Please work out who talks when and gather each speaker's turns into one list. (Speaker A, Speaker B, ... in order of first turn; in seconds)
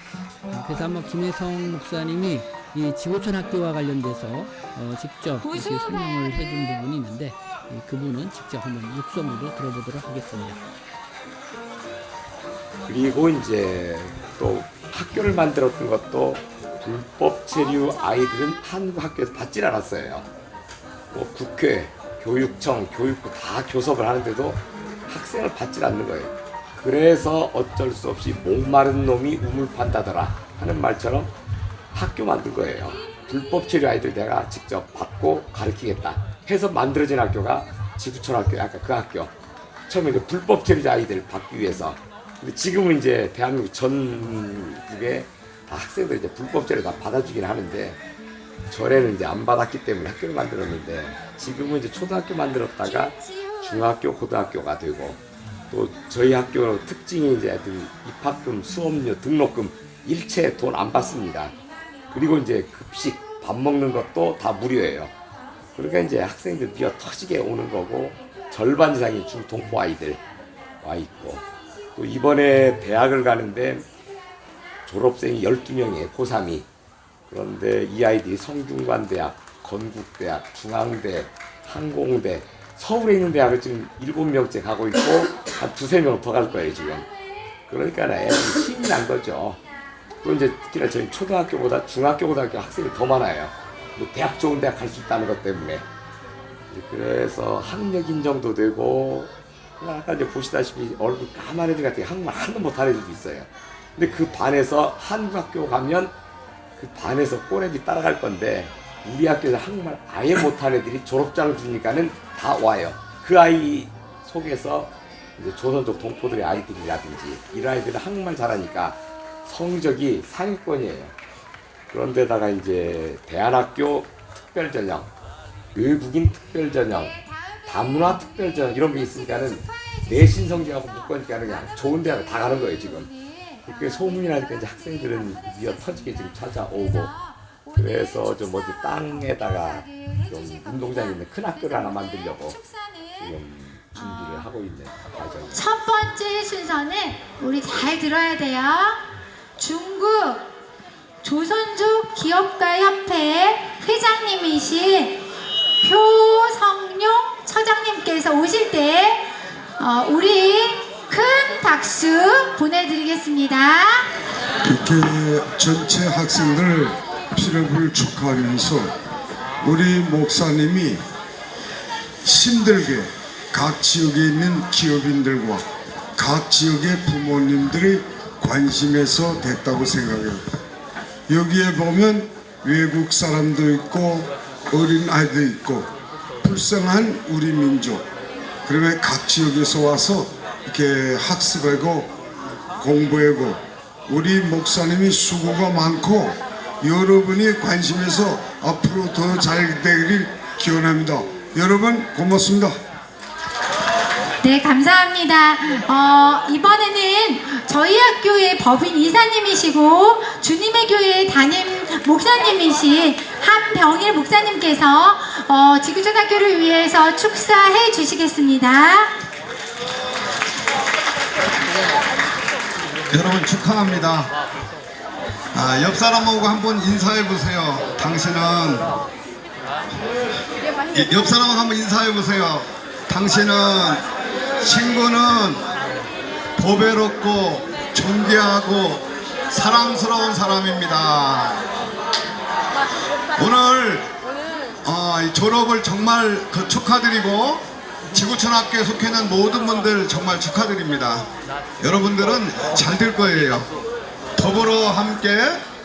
Speaker A: 0.5-10.6
Speaker B: 5.4-5.9, 127.9-128.3, 132.5-134.2, 134.8-143.1, 143.9-144.5, 145.5-149.0, 149.6-150.5, 151.2-155.2, 155.8-159.2, 159.8-164.1, 204.4-219.1
Speaker C: 12.9-20.3, 21.1-31.3, 31.9-39.3, 39.9-48.0, 48.7-61.6, 62.1-65.1, 65.8-70.2, 70.8-73.9, 74.9-76.7, 77.3-87.1, 87.7-89.6, 90.2-95.9, 96.7-106.1, 106.8-121.1, 121.9-125.1, 125.7-133.1, 133.6-137.1, 137.8-142.6, 143.2-145.8
Speaker D: 164.6-168.9, 169.6-171.0, 172.2-175.6, 176.2-180.4, 181.3-185.9, 186.4-188.1, 188.7-192.1, 192.8-202.8
Speaker E: 223.1-224.3, 225.5-228.9, 230.9-234.0, 234.6-235.7, 236.6-241.6, 243.4-244.1, 244.8-251.3, 251.8-253.7, 254.4-255.6